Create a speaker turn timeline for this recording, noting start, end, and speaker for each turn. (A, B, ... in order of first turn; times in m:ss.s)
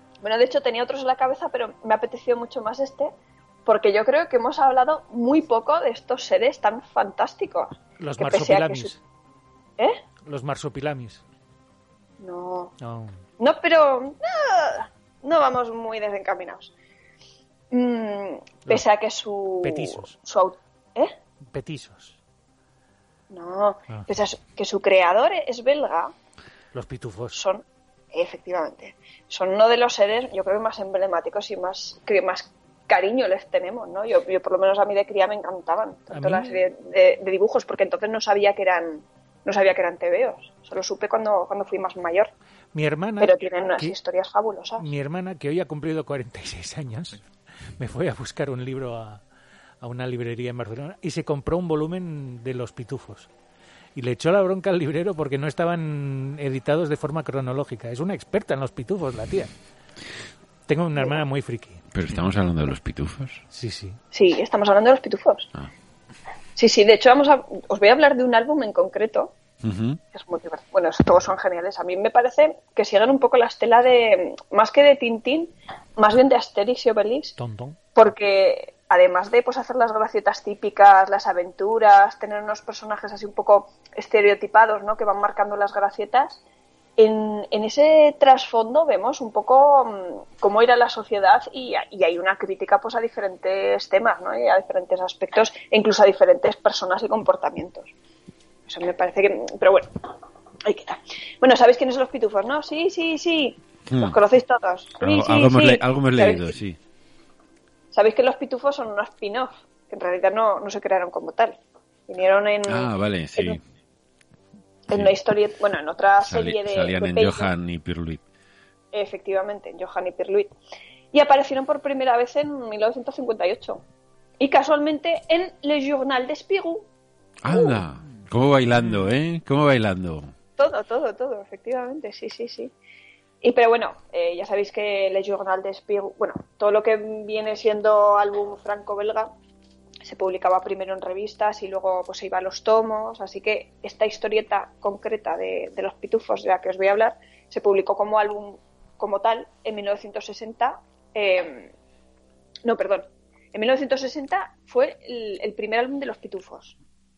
0:00.2-0:03.1 A
0:03.6-0:08.9 A
0:08.0-0:09.0 B
0:10.2-0:11.2 B
0:12.2-0:12.7 A
0:12.8-0:13.2 B
0:13.4-0:16.7 A
0:17.7-0:21.1 A
0:19.6-0:20.2 B
0:21.5-0:22.2 B
0:23.3-0:26.1 A
0:26.7-0:27.4 B
0:27.3-0:42.3 A
0:36.1-0:36.6 B
0:42.7-0:44.0 B
0:43.2-0:44.9 A
0:44.8-0:47.2 B
0:47.8-0:49.2 B
0:49.8-0:53.3 B
0:53.9-0:59.5 B
1:00.7-1:01.8 B
1:01.9-1:03.4 C
1:03.5-1:04.0 B
1:04.1-1:05.5 A
1:06.6-1:09.3 A
1:09.6-1:10.0 C
1:10.1-1:17.3 A
1:17.4-1:17.8 B
1:17.9-1:26.4 A
1:27.0-1:37.9 A
1:38.7-1:40.1 A
1:40.6-1:46.5 A
1:43.9-1:44.2 C
1:45.0-1:46.8 C
1:47.9-1:53.6 A
1:52.7-1:53.6 C
1:54.9-1:57.5 A
1:54.9-1:55.2 C
1:56.2-1:58.2 C
1:58.9-2:00.5 A
2:01.1-2:03.8 A
2:04.4-2:06.9 A
2:07.4-2:10.3 C
2:07.5-2:07.8 A
2:10.6-2:12.7 A
2:13.4-2:19.3 A
2:20.0-2:31.7 A
2:32.6-2:36.7 A